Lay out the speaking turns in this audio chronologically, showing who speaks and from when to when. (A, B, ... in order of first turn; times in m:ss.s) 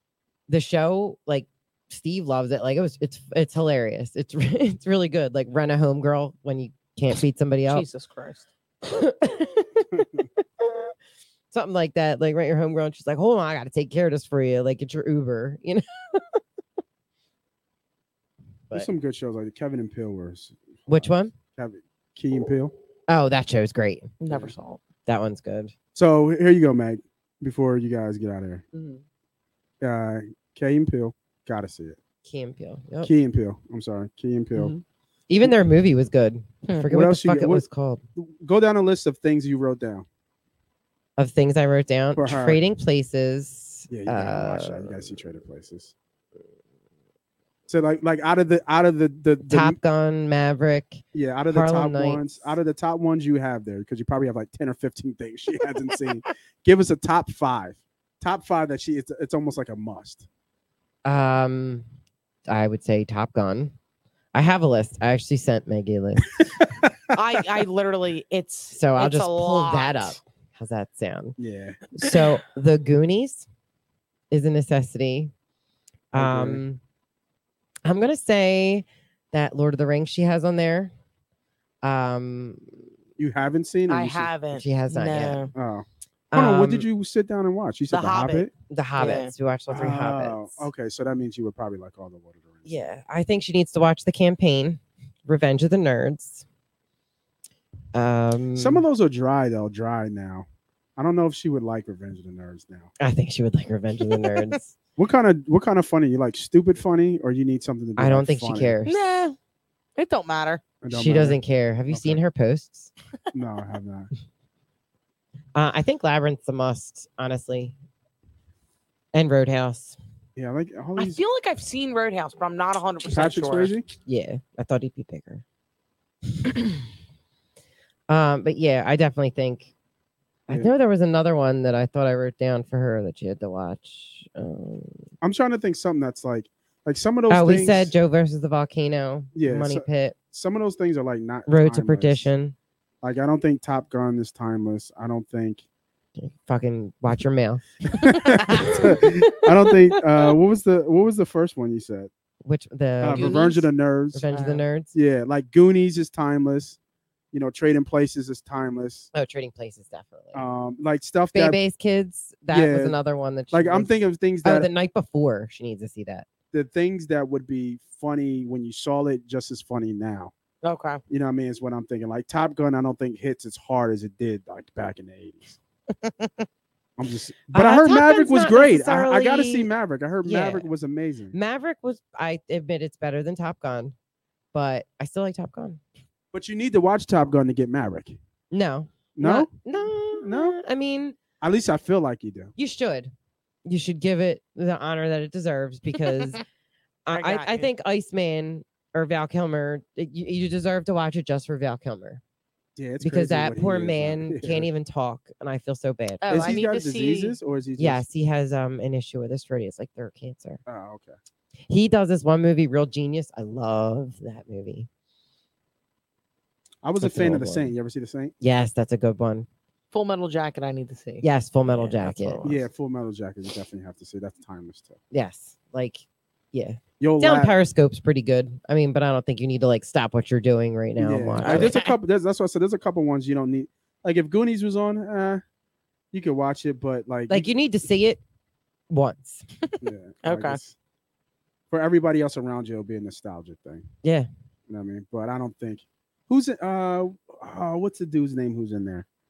0:00.5-0:07.8 A
0:07.7-0:08.5 B
0:08.9-0:10.9 A
0:11.5-0:16.4 A
0:18.7-0:22.7 C
0:20.9-0:21.3 A
0:23.1-0:24.1 A
0:24.2-0:24.8 B
0:25.1-0:25.7 A
0:26.0-0:28.6 C
0:29.8-0:32.0 C
0:32.2-0:33.1 A
0:33.0-0:34.8 C
0:35.3-0:38.0 A
0:36.9-0:37.6 C
0:38.2-0:40.0 C
0:41.2-0:45.0 A
0:42.2-0:42.6 C
0:43.9-0:45.9 C
0:47.7-0:49.8 C
0:49.4-0:52.4 A
0:51.1-1:00.3 C
1:01.0-1:01.8 A
1:02.5-1:03.7 A
1:04.3-1:06.7 A
1:07.1-1:10.2 B
1:08.7-1:11.4 A
1:11.4-1:11.9 C
1:12.0-1:13.5 A
1:14.3-1:15.3 A
1:16.1-1:16.8 A
1:16.2-1:16.6 C
1:17.8-1:20.9 A
1:21.8-1:22.9 A
1:23.2-1:24.3 C
1:23.9-1:25.5 B
1:24.5-1:25.5 A
1:25.5-1:28.5 C
1:26.3-1:26.9 A
1:27.9-1:29.3 B
1:28.7-1:30.7 A
1:29.7-1:32.7 C
1:32.7-1:36.4 A
1:37.9-1:38.8 A
1:38.6-1:40.5 C
1:41.0-1:42.9 C
1:43.0-1:44.8 A
1:45.0-1:48.8 C
1:48.0-1:49.0 A
1:48.8-1:49.4 B
1:50.0-1:50.6 B
1:50.8-1:52.2 C
1:50.9-1:52.9 A
1:53.3-1:54.1 C
1:55.6-1:57.8 A
1:59.1-2:00.0 A
2:00.4-2:01.2 C
2:01.0-2:03.7 B
2:03.0-2:03.8 C
2:04.0-2:05.4 A
2:06.4-2:06.7 A
2:08.1-2:09.7 A
2:10.5-2:15.1 A
2:15.2-2:17.9 C
2:17.3-2:20.2 A
2:19.4-2:22.3 C
2:21.5-2:22.6 A
2:23.0-2:25.6 C
2:26.2-2:29.5 A
2:27.9-2:32.1 C
2:28.4-2:28.8 B
2:32.4-2:33.6 A
2:33.0-2:34.3 C
2:33.1-2:33.6 B
2:34.1-2:34.9 A
2:34.3-2:34.6 B
2:34.9-2:36.8 C
2:37.3-2:39.1 C
2:39.1-2:40.4 A
2:40.3-2:41.6 C
2:41.3-2:43.9 A
2:42.5-2:43.0 C
2:43.5-2:44.7 C
2:44.4-2:46.3 A
2:46.5-2:50.3 C
2:50.6-2:51.0 B
2:51.1-2:55.6 C
2:56.0-2:56.5 B
2:57.0-3:01.4 C
2:57.5-2:59.7 A
3:00.2-3:00.7 A
3:01.3-3:03.9 A
3:04.5-3:05.8 A
3:06.3-3:08.2 C
3:08.5-3:11.2 A
3:09.2-3:09.5 C
3:10.1-3:10.6 C
3:11.4-3:12.5 C
3:12.6-3:13.1 A
3:13.6-3:16.4 A
3:17.1-3:22.2 A
3:17.1-3:17.7 B
3:22.8-3:24.7 C
3:23.0-3:26.2 A
3:26.2-3:27.4 B
3:26.3-3:28.0 C
3:27.8-3:30.6 A
3:30.7-3:31.1 C
3:31.7-3:34.9 A
3:36.8-3:38.3 C
3:37.0-3:37.7 A
3:38.4-3:39.5 A
3:39.9-3:42.7 B
3:41.2-3:42.5 A
3:42.4-3:45.0 C
3:45.1-3:51.8 A
3:47.0-3:47.6 C
3:51.0-3:55.4 C
3:51.4-3:51.9 B
3:56.1-3:57.5 C
3:57.3-3:58.2 A
3:58.9-3:59.4 A
3:59.8-4:00.8 C
4:00.2-4:00.6 B
4:01.7-4:03.9 C
4:04.7-4:09.0 C